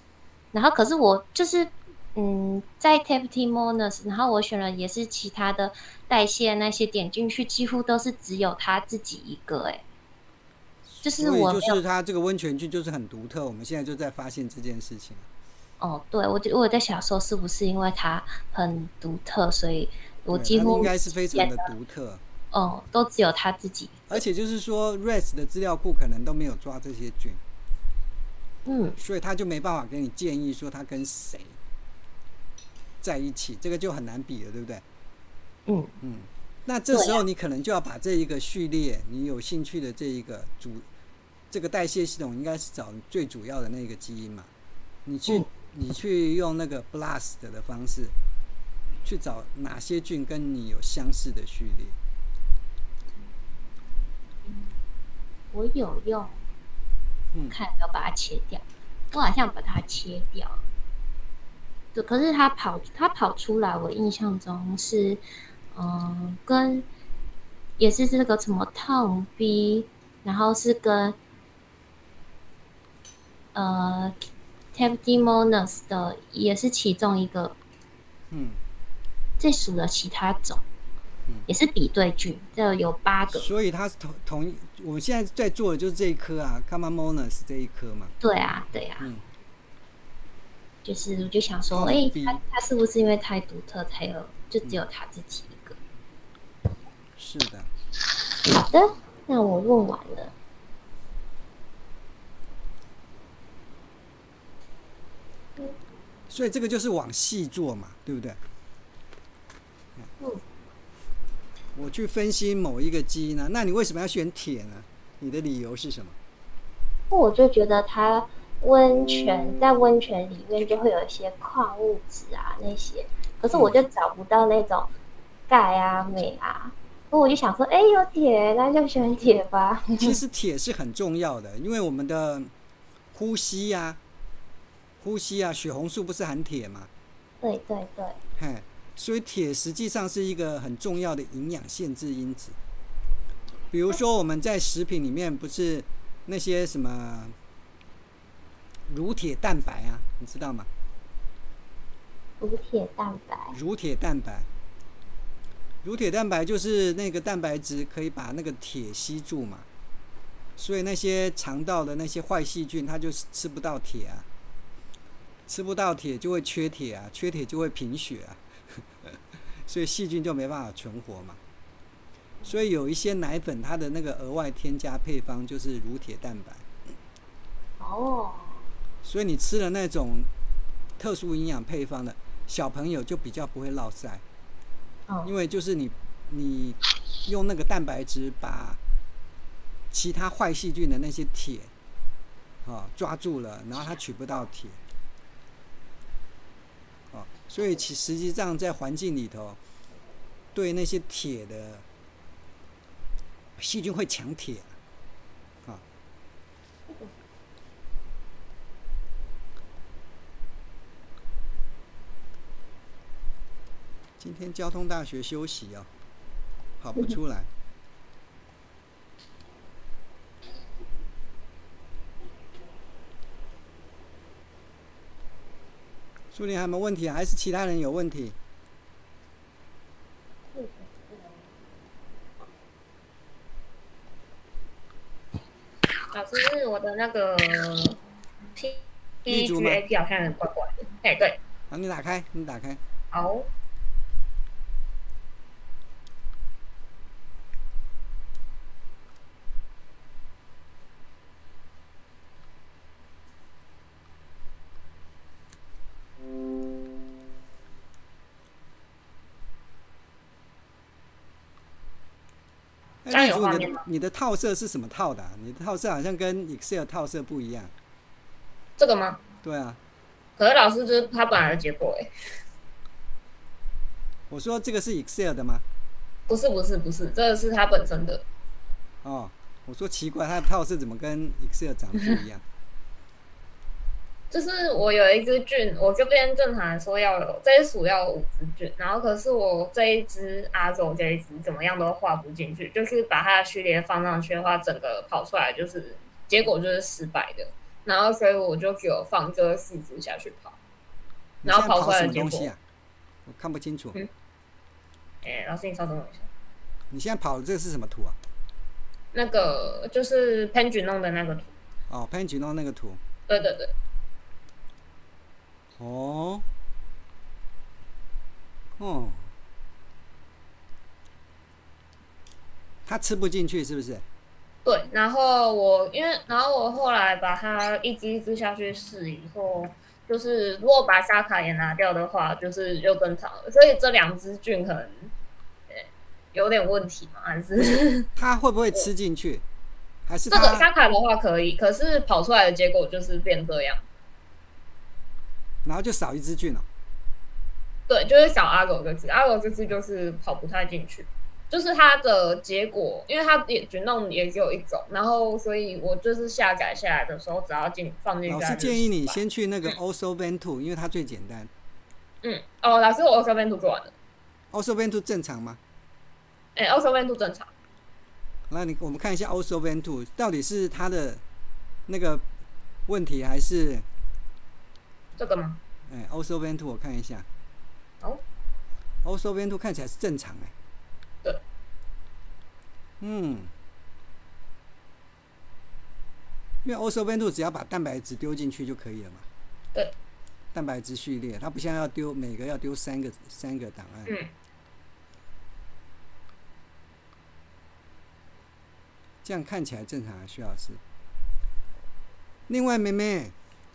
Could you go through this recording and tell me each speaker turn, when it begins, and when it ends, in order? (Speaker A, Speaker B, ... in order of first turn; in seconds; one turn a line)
Speaker A: 0.5-9.8
Speaker B: 10.8-15.3
Speaker A: 11.0-11.8
Speaker A: 15.8-21.7
Speaker B: 20.3-22.2
Speaker A: 22.5-24.2
Speaker B: 24.1-27.4
Speaker A: 28.7-29.0
Speaker B: 29.0-31.6
Speaker B: 33.0-34.8
Speaker A: 35.7-36.0
Speaker B: 36.0-40.9
Speaker A: 36.9-37.2
Speaker B: 41.5-44.5
Speaker B: 45.1-48.1
Speaker B: 49.0-52.0
Speaker A: 55.5-56.4
Speaker A: 57.5-60.6
Speaker A: 61.9-65.2
Speaker A: 65.7-66.9
Speaker A: 67.8-71.2
Speaker A: 73.5-74.2
Speaker A: 74.7-77.6
Speaker B: 78.3-78.6
Speaker A: 79.4-80.6
Speaker A: 81.5-83.5
Speaker B: 83.3-88.1
Speaker A: 88.2-89.1
Speaker B: 89.0-89.2
Speaker A: 90.8-95.8
Speaker B: 91.7-92.4
Speaker B: 97.2-97.7
Speaker A: 98.4-100.3
Speaker B: 106.3-108.4
Speaker B: 111.8-116.2
Speaker A: 117.1-124.9
Speaker B: 123.5-123.8
Speaker A: 125.5-130.2
Speaker B: 130.0-132.5
Speaker B: 133.1-134.0
Speaker B: 135.0-136.9
Speaker A: 137.4-138.2
Speaker B: 138.4-142.6
Speaker B: 143.7-147.3
Speaker B: 148.9-150.7
Speaker A: 152.4-153.6
Speaker B: 153.5-154.5
Speaker B: 155.8-159.7
Speaker B: 160.6-164.3
Speaker B: 165.5-171.4
Speaker B: 172.5-176.7
Speaker A: 177.8-178.7
Speaker B: 179.0-180.3
Speaker B: 181.0-184.2
Speaker B: 185.2-188.8
Speaker B: 189.9-191.7
Speaker B: 192.7-194.8
Speaker B: 197.1-199.6
Speaker B: 200.5-201.8
Speaker B: 203.6-204.8
Speaker B: 214.2-215.9
Speaker B: 216.8-217.5
Speaker B: 226.3-228.4
Speaker A: 230.5-231.5
Speaker C: 236.1-238.0
Speaker C: 238.6-241.4
Speaker B: 239.3-239.8
Speaker B: 241.7-242.8
Speaker C: 243.1-243.5
Speaker B: 263.1-267.7
Speaker C: 263.1-263.8
Speaker C: 268.8-269.2
Speaker B: 269.4-269.8
Speaker C: 270.4-272.1
Speaker B: 274.3-275.6
Speaker C: 276.3-278.2
Speaker B: 279.0-282.4
Speaker C: 284.3-300.6
Speaker B: 301.4-302.6
Speaker C: 301.4-302.5
Speaker B: 303.3-304.0
Speaker C: 305.2-306.3
Speaker B: 306.9-308.2
Speaker C: 309.1-311.5
Speaker B: 311.9-313.0
Speaker C: 313.3-313.7
Speaker B: 315.8-316.4
Speaker B: 318.8-319.3
Speaker B: 322.9-324.0
Speaker C: 324.6-335.1
Speaker C: 335.7-338.1
Speaker B: 338.2-339.4
Speaker B: 340.1-340.7
Speaker C: 340.3-343.8
Speaker B: 345.6-346.7
Speaker C: 347.9-359.8
Speaker B: 358.3-361.5
Speaker C: 362.2-363.9
Speaker B: 364.5-365.6
Speaker C: 366.6-367.5
Speaker B: 368.5-371.2
Speaker B: 371.9-372.2
Speaker B: 372.9-373.9
Speaker C: 375.2-375.6
Speaker B: 375.9-377.3
Speaker B: 379.0-380.5
Speaker B: 383.0-383.5
Speaker B: 386.6-389.3
Speaker B: 390.5-394.1
Speaker B: 399.2-400.8
Speaker B: 402.5-403.3